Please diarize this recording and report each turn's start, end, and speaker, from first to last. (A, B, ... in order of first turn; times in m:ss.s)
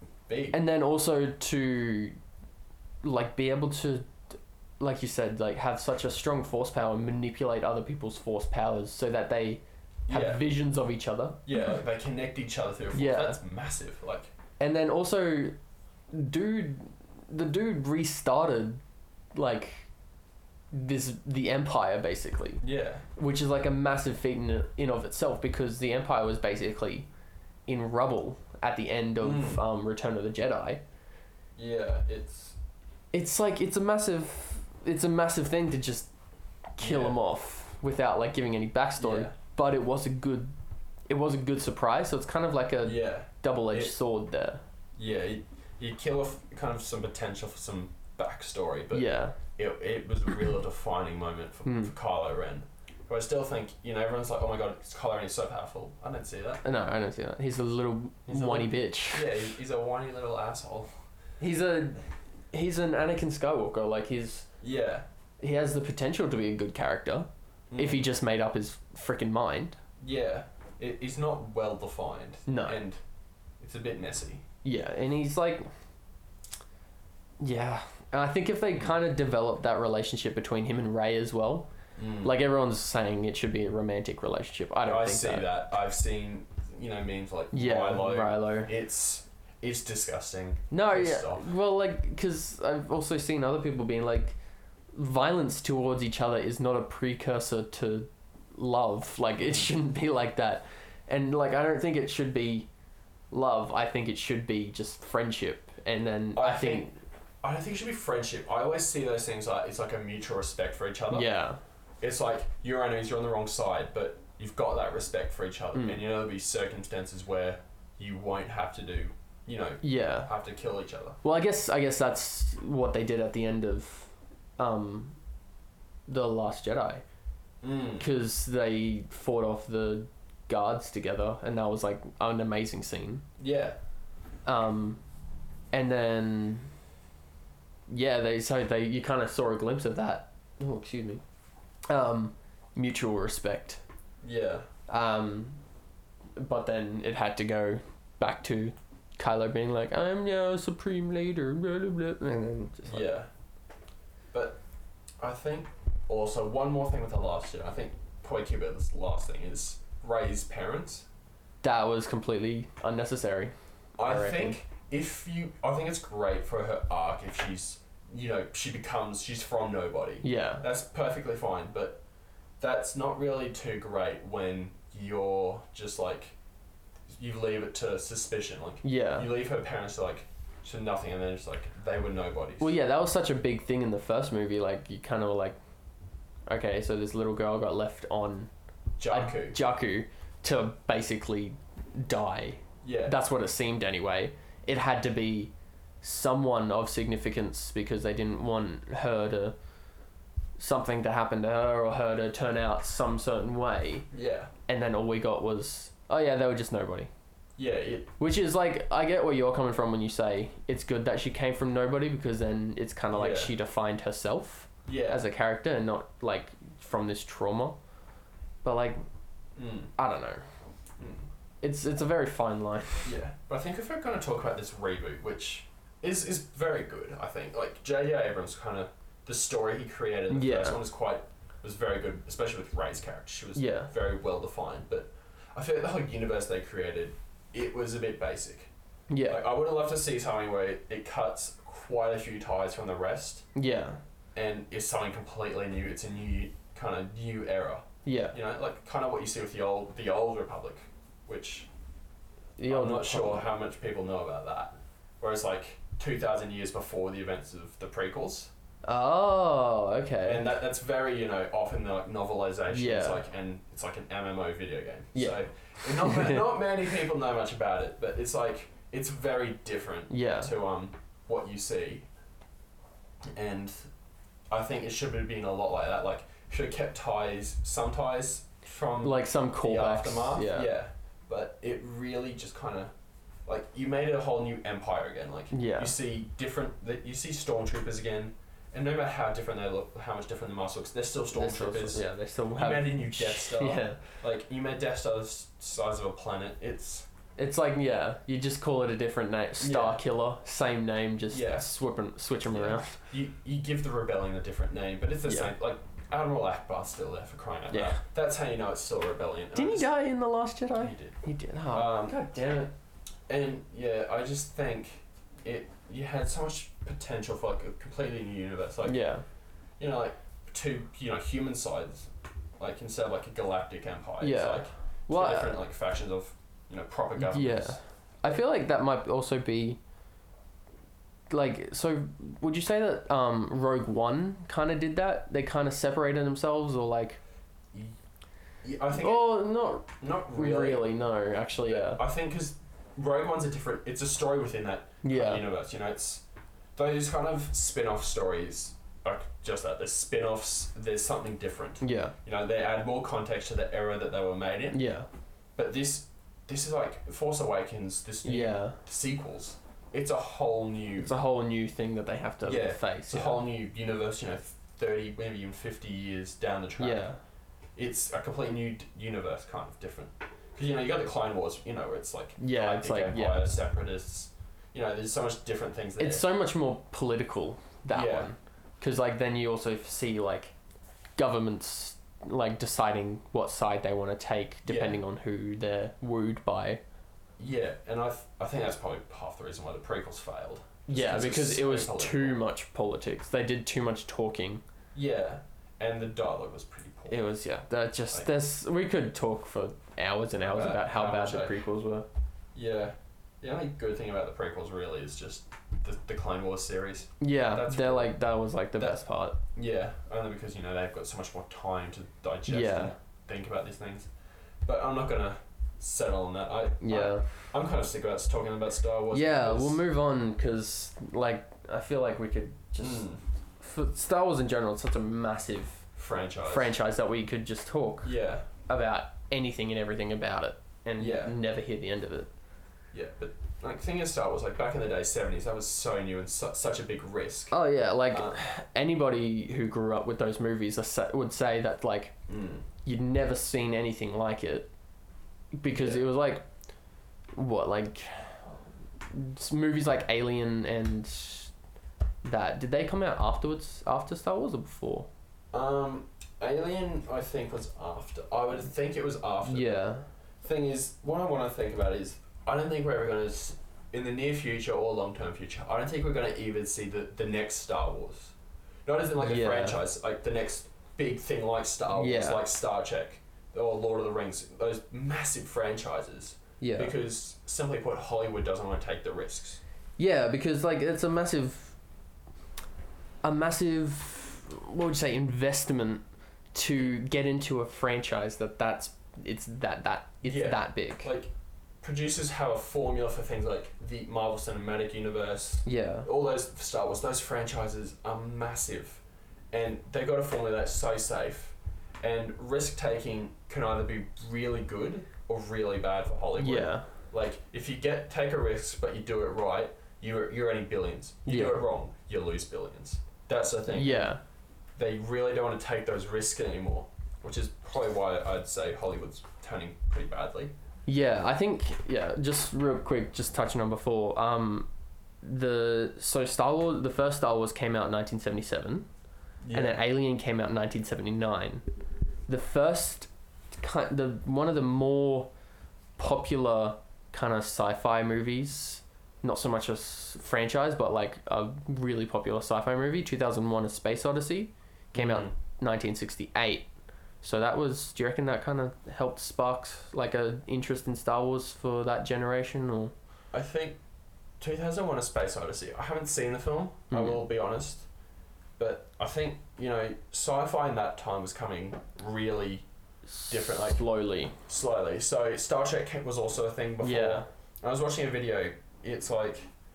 0:00.3-0:00.6 A
0:00.5-0:02.2 B
0:03.0-0:04.1 B
0:04.8-0:11.8 B
0:10.1-0:10.4 A
0:11.4-0:14.3 A
0:12.9-0:13.4 B
0:14.6-0:15.6 B
0:16.1-0:18.8 B
0:19.3-0:19.9 B
0:20.7-0:22.6 B
0:22.6-0:23.0 A
0:23.2-0:27.1 B
0:27.7-0:30.8 B
0:29.2-0:29.6 A
0:31.6-0:32.6 A
0:33.1-0:36.1 B
0:36.8-0:40.5 B
0:36.8-0:37.2 A
0:39.0-0:39.4 A
0:41.1-0:44.6 B
0:42.8-0:43.9 A
0:45.0-0:56.6 A
0:48.9-0:49.4 B
0:51.6-0:51.9 B
0:56.6-0:59.3 B
0:58.3-1:00.9 A
1:01.4-1:02.0 B
1:02.5-1:04.5 B
1:04.6-1:05.0 A
1:05.4-1:09.8 B
1:07.7-1:08.1 A
1:10.0-1:13.0 A
1:12.5-1:12.8 B
1:13.6-1:14.4 A
1:14.6-1:15.6 B
1:17.4-1:21.7 B
1:22.0-1:22.4 A
1:22.2-1:25.5 B
1:24.8-1:31.5 A
1:27.5-1:28.7 B
1:30.7-1:34.4 B
1:34.9-1:42.7 B
1:39.4-1:39.7 A
1:43.3-1:46.9 B
1:46.4-1:51.3 A
1:51.1-1:51.6 B
1:52.0-2:01.2 A
1:55.7-1:56.0 B
1:59.8-2:00.3 B
2:01.2-2:05.2 B
2:06.1-2:07.0 B
2:07.6-2:08.1 A
2:08.0-2:13.2 B
2:13.4-2:13.8 A
2:14.4-2:15.0 B
2:15.7-2:16.7 B
2:17.9-2:21.2 B
2:21.9-2:23.8 B
2:24.2-2:24.6 A
2:24.9-2:25.6 B
2:26.4-2:33.1 B
2:32.8-2:33.3 A
2:34.3-2:34.6 A
2:35.2-2:41.1 A
2:41.6-2:44.6 B
2:44.0-2:52.0 A
2:50.2-2:50.6 B
2:52.6-2:56.4 A
2:57.1-3:02.7 A
2:58.8-2:59.3 B
3:02.6-3:05.6 B
3:06.5-3:08.5 B
3:09.0-3:09.6 A
3:09.1-3:19.5 B
3:12.8-3:13.2 A
3:20.6-3:24.1 B
3:24.1-3:24.5 A
3:24.7-3:27.1 B
3:27.6-3:28.1 A
3:28.2-3:37.8 B
3:33.1-3:33.5 A
3:34.8-3:35.2 A
3:38.6-3:39.0 B
3:39.6-3:39.9 A
3:40.0-3:40.4 B
3:41.0-3:41.3 A
3:41.6-3:43.1 B
3:43.0-3:58.7 A
3:50.3-3:50.8 B
3:53.6-3:53.9 B
3:59.1-3:59.4 B
3:59.3-4:03.5 A
4:03.5-4:04.0 B
4:04.3-4:11.7 A
4:08.0-4:08.4 B
4:12.6-4:13.4 B
4:12.7-4:18.5 A
4:18.8-4:20.5 B
4:20.2-4:32.1 A
4:22.7-4:23.2 B
4:25.1-4:26.4 B
4:30.1-4:30.5 B
4:33.3-4:33.9 A
4:34.5-4:42.9 A
4:39.0-4:40.7 B
4:43.4-4:57.1 A
4:45.5-4:46.0 B
4:51.3-4:54.0 B
4:57.4-5:03.0 B
4:59.6-5:00.0 A
5:01.3-5:01.7 A
5:02.5-5:09.9 A
5:05.3-5:05.5 B
5:07.7-5:08.0 B
5:09.5-5:12.3 B
5:10.8-5:11.2 A
5:11.7-5:12.7 A
5:13.3-5:19.0 A
5:18.8-5:19.2 B
5:19.8-5:28.4 A
5:24.2-5:25.6 B
5:27.2-5:29.8 B
5:31.3-5:37.2 B
5:38.6-5:39.3 A
5:38.9-5:42.0 B
5:40.0-5:40.9 A
5:41.6-5:46.2 A
5:45.0-5:45.4 B
5:46.8-5:54.8 A
5:51.8-5:52.1 B
5:54.7-5:55.1 B
5:55.6-6:01.2 A
5:58.2-5:58.8 B
6:01.0-6:03.4 B
6:02.4-6:07.1 A
6:06.8-6:07.2 B
6:07.8-6:16.2 A
6:12.4-6:13.5 B
6:16.0-6:20.5 B
6:17.9-6:18.3 A
6:21.2-6:26.8 B
6:24.7-6:25.0 A
6:27.4-6:32.4 A
6:30.9-6:34.6 B
6:34.9-6:37.3 A
6:37.1-6:42.1 B
6:40.4-6:41.6 A
6:42.5-6:48.1 A
6:47.2-6:49.4 B
6:49.5-6:54.1 A
6:52.5-6:52.9 B
6:54.6-6:59.8 A
6:56.8-6:57.3 B
6:59.1-7:03.1 B
7:02.8-7:03.2 A
7:03.6-7:05.8 B
7:06.0-7:06.7 A
7:06.4-7:08.1 B
7:08.0-7:08.5 A
7:08.7-7:12.3 B
7:11.0-7:11.4 A
7:12.9-7:17.5 A
7:17.5-7:22.2 B
7:18.1-7:18.4 A
7:22.3-7:22.6 A
7:22.8-7:24.7 B
7:25.6-7:26.4 B
7:25.7-7:26.0 A
7:27.3-7:28.5 B
7:29.1-7:31.5 B
7:32.2-7:35.1 B
7:35.5-7:39.8 A
7:39.4-7:40.1 B
7:40.4-7:48.3 A
7:48.8-7:59.6 A
7:49.2-7:49.8 B
7:51.9-7:52.4 B
7:56.6-7:56.9 B
8:00.0-8:01.8 B
8:03.2-8:11.1 B
8:10.2-8:34.1 A
8:15.6-8:16.1 B
8:26.4-8:26.9 B
8:31.2-8:31.6 B
8:33.7-8:34.2 B
8:34.8-8:40.5 A
8:40.9-8:44.7 B
8:45.2-8:48.9 B
8:49.4-8:49.8 A
8:49.5-8:51.6 B
8:52.3-8:55.3 B
8:56.0-9:06.7 B
9:04.9-9:05.3 A
9:07.2-9:12.9 B
9:13.3-9:13.8 A
9:14.4-9:17.9 A
9:16.9-9:17.2 B
9:18.6-9:22.6 A
9:23.1-9:24.3 B
9:23.3-9:23.8 A
9:24.4-9:29.5 A
9:26.8-9:27.2 B